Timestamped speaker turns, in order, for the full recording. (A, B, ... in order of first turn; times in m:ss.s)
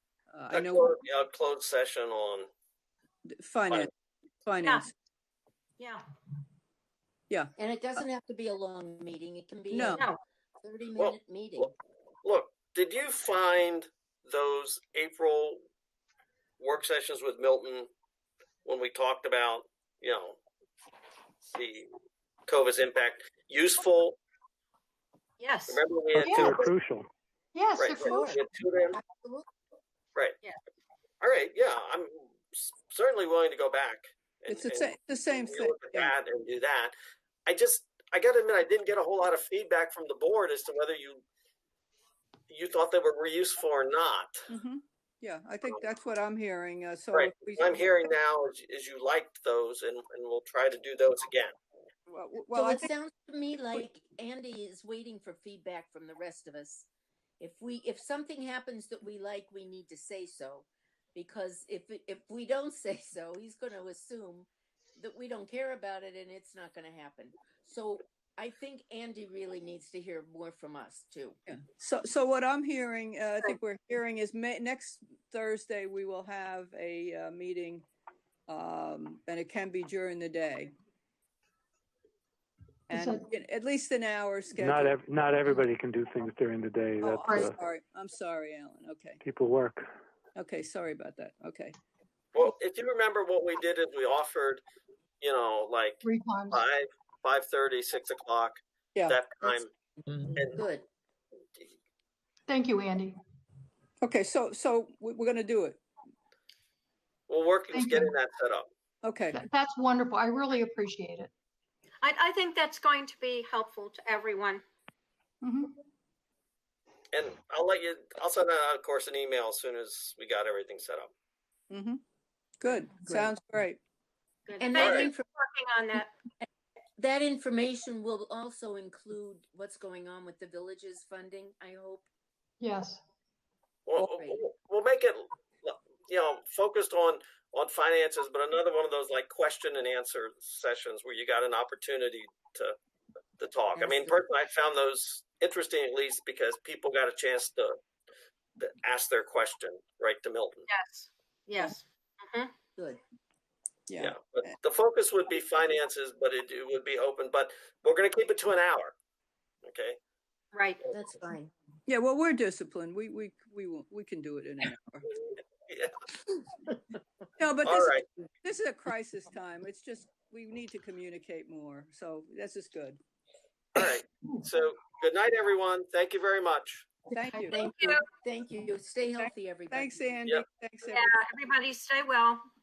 0:00.3-0:00.9 A
0:00.5-0:02.5 B
0:03.2-0:03.9 A
0:04.4-0:04.9 A
0:04.6-0:04.9 C
0:07.6-0:10.1 D
0:09.7-0:10.0 A
0:09.9-0:10.2 C
0:10.6-0:11.7 D
0:11.0-0:11.7 B
0:12.2-0:15.6 B
0:16.6-0:17.9 B
0:18.6-0:20.4 B
0:21.6-0:21.9 B
0:22.5-0:24.2 B
0:25.4-0:25.8 C
0:25.7-0:26.7 B
0:26.2-0:27.1 E
0:26.2-0:26.6 F
0:27.5-0:28.4 F
0:27.8-0:29.0 B
0:28.1-0:28.4 D
0:28.9-0:29.5 D
0:31.2-0:37.0 B
0:34.5-0:36.1 A
0:37.5-0:41.2 B
0:42.5-0:44.4 B
0:44.5-0:47.9 A
0:47.1-0:51.5 B
0:52.1-0:52.9 A
0:52.5-0:56.9 D
0:57.4-1:11.4 D
1:11.5-1:17.9 A
1:18.5-1:20.7 A
1:22.9-1:25.0 A
1:22.9-1:23.2 F
1:24.6-1:27.6 E
1:27.0-1:29.2 A
1:29.2-1:29.8 E
1:30.4-1:31.8 A
1:32.3-1:34.6 B
1:35.2-1:39.7 B
1:36.0-1:36.6 F
1:39.4-1:40.9 D
1:40.4-1:40.6 B
1:42.5-1:43.2 F
1:44.0-1:45.8 A
1:47.3-1:48.7 B
1:47.7-1:48.1 F
1:49.0-1:49.4 A
1:49.3-1:51.3 F
1:52.0-1:54.6 C
1:55.4-1:55.7 F
1:57.1-2:01.1 B
2:01.7-2:02.0 A
2:02.6-2:03.8 A
2:03.1-2:03.3 D
2:04.5-2:06.1 C
2:04.6-2:05.2 D
2:04.8-2:05.1 B
2:07.0-2:12.1 D
2:12.6-2:13.0 F
2:13.9-2:22.8 B
2:14.0-2:14.4 D
2:23.4-2:27.8 B
2:23.8-2:24.1 D
2:28.6-2:30.7 B
2:30.7-2:32.5 C
2:33.9-2:34.5 A
2:34.0-2:39.0 B
2:39.7-2:40.0 B
2:40.5-2:40.8 C
2:40.9-2:41.5 D
2:41.9-2:45.1 A
2:45.7-2:45.9 B
2:47.4-2:53.0 A
2:47.6-2:48.1 B
2:53.8-2:56.9 B
2:57.1-2:57.5 A
2:57.3-3:00.1 D
2:57.6-2:58.0 C
2:59.2-3:01.1 A
3:00.9-3:02.4 C